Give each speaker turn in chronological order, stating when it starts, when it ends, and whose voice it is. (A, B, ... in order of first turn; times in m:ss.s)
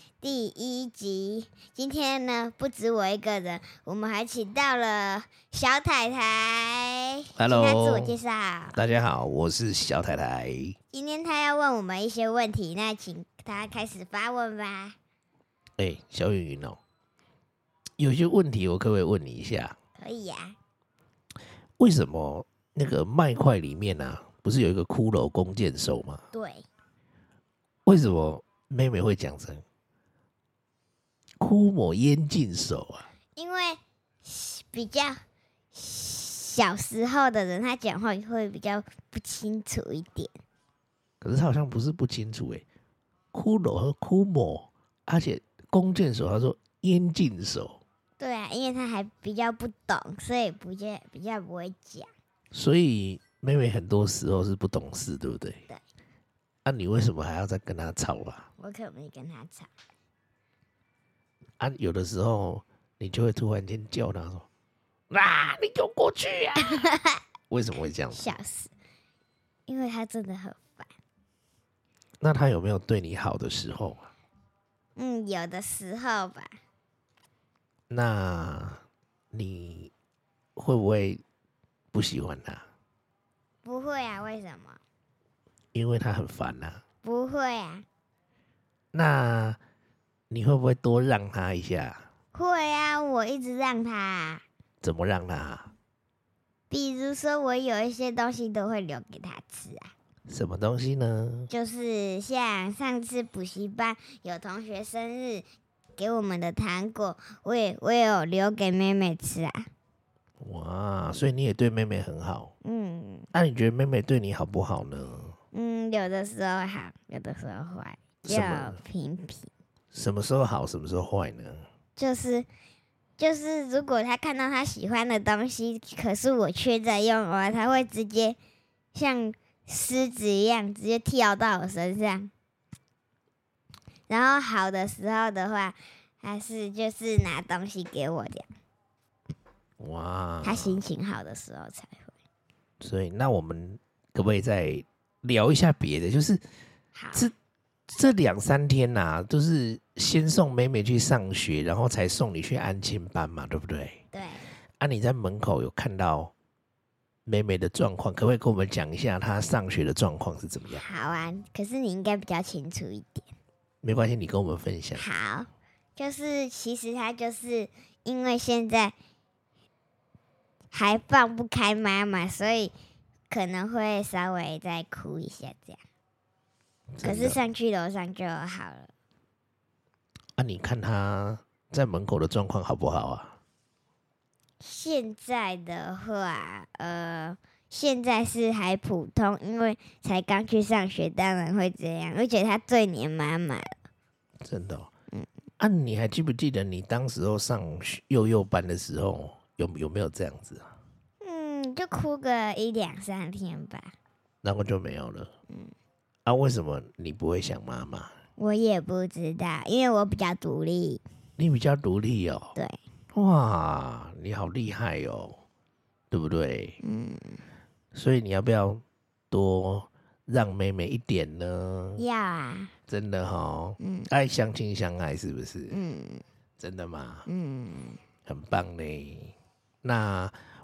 0:00.2-0:08.8 A
0:07.4-0:08.2 B
0:08.7-0:10.8 B
0:10.9-0:15.0 A
0:15.8-0:16.8 B
0:18.0-0:19.8 B
0:20.0-0:20.6 A
0:21.8-0:26.2 B
0:26.3-0:26.6 A
0:27.8-0:29.6 B
0:31.4-0:33.1 B
0:33.4-0:35.2 A
0:35.7-0:40.3 A
0:41.2-0:42.6 B
0:43.3-0:47.8 B
0:48.2-0:52.1 A
0:52.5-0:55.6 B
0:56.6-0:58.5 B
0:58.6-0:59.7 A
1:01.6-1:04.5 B
1:05.1-1:06.9 B
1:06.6-1:07.2 A
1:07.5-1:08.3 B
1:08.1-1:08.7 A
1:09.7-1:10.9 A
1:12.2-1:14.1 B
1:15.0-1:16.6 A
1:17.9-1:19.9 B
1:20.6-1:21.2 B
1:21.9-1:22.6 B
1:23.6-1:24.8 A
1:25.7-1:26.8 B
1:27.0-1:27.8 A
1:28.9-1:29.6 B
1:30.3-1:32.0 B
1:32.3-1:34.4 A
1:34.8-1:35.7 B
1:36.7-1:39.9 A
1:40.3-1:41.5 B
1:41.5-1:45.4 A
1:46.0-1:49.7 A
1:50.4-1:52.5 B
1:52.6-1:53.3 A
1:53.3-1:55.4 B
1:55.5-1:59.5 A
1:58.2-1:58.8 B
1:59.9-2:01.6 B
2:02.0-2:02.5 A
2:03.2-2:08.4 A
2:08.9-2:12.3 A
2:14.1-2:18.5 A
2:19.8-2:20.8 B
2:20.4-2:22.1 A
2:22.8-2:26.4 B
2:26.9-2:27.3 A
2:27.9-2:34.0 B
2:34.1-2:34.5 A
2:34.8-2:36.3 B
2:37.2-2:40.8 B
2:40.7-2:43.3 A
2:43.8-2:45.0 B
2:45.0-2:48.9 A
2:50.7-2:52.7 A
2:53.3-2:55.8 A
2:56.9-2:57.4 B
2:57.0-2:58.9 A
3:00.4-3:03.4 B
3:04.6-3:13.7 A
3:14.4-3:14.9 B
3:15.6-3:20.7 B
3:21.2-3:23.9 A
3:24.4-3:25.3 B
3:26.2-3:28.1 B
3:28.4-3:31.0 A
3:31.4-3:32.5 B
3:33.1-3:35.4 B
3:36.1-3:36.8 B
3:36.8-3:37.4 A
3:37.9-3:42.0 B
3:42.0-3:42.7 A
3:42.9-3:45.8 B
3:43.8-3:44.1 A
3:45.7-3:46.2 A
3:46.6-3:47.3 B
3:47.3-3:48.0 A
3:48.2-3:50.4 B